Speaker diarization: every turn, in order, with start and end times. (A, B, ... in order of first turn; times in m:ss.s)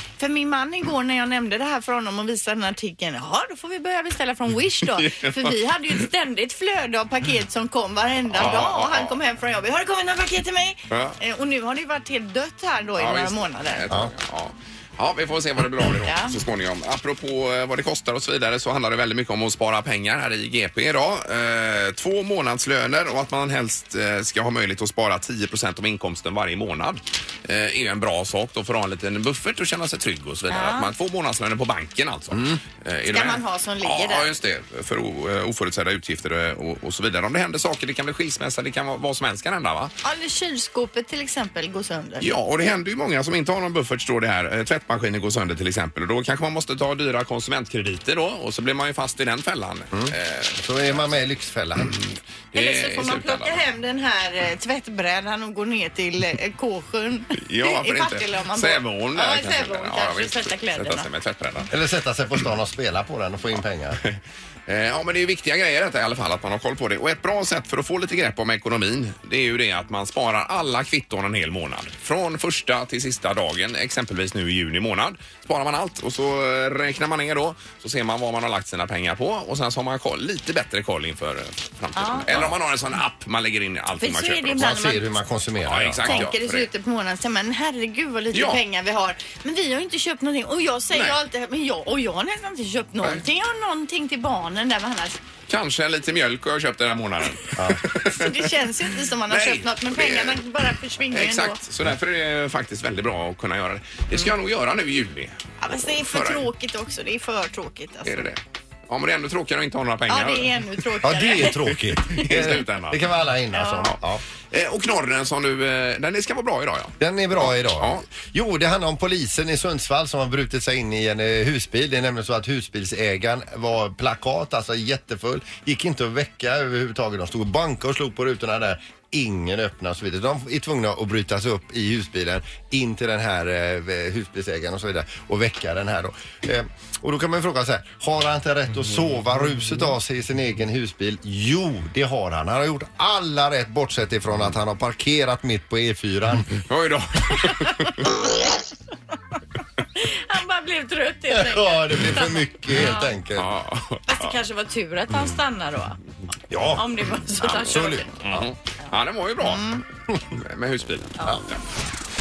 0:00.2-0:13.8 A
0:05.0-0:05.5 B
0:08.3-0:09.1 B
0:10.9-0:11.2 B
0:13.0-0:39.9 B
0:16.0-0:16.4 A
0:30.5-0:30.9 A
0:32.3-0:32.6 C
0:33.1-0:34.3 A
0:40.0-0:42.3 A
0:42.2-0:51.0 B
0:49.9-0:52.0 C
0:51.8-0:53.6 B
0:52.5-1:01.1 A
0:57.4-1:01.7 B
1:01.7-1:04.0 C
1:04.0-1:24.7 B
1:22.0-1:22.5 A
1:24.0-1:25.0 A
1:24.6-1:26.3 C
1:25.6-1:26.7 B
1:26.0-1:35.2 A
1:28.3-1:28.6 B
1:35.5-1:38.5 B
1:37.6-1:37.8 C
1:38.0-1:41.6 A
1:39.3-1:40.4 B
1:41.1-1:46.4 B
1:45.6-1:48.3 A
1:48.0-1:48.4 B
1:48.9-1:50.6 B
1:50.1-1:51.6 A
1:51.0-1:54.2 C
1:52.1-1:53.0 B
1:53.5-1:53.9 A
1:54.5-1:58.0 B
1:57.0-2:26.6 C
2:26.6-2:28.1 B
2:27.4-2:28.4 A
2:30.0-2:33.1 A
2:31.3-2:33.5 C
2:33.4-2:34.4 B
2:34.1-2:36.0 A
2:36.5-2:36.9 C
2:36.7-2:38.1 A
2:37.4-2:38.5 C
2:38.2-2:39.8 B
2:39.4-2:39.8 A
2:40.3-2:41.6 B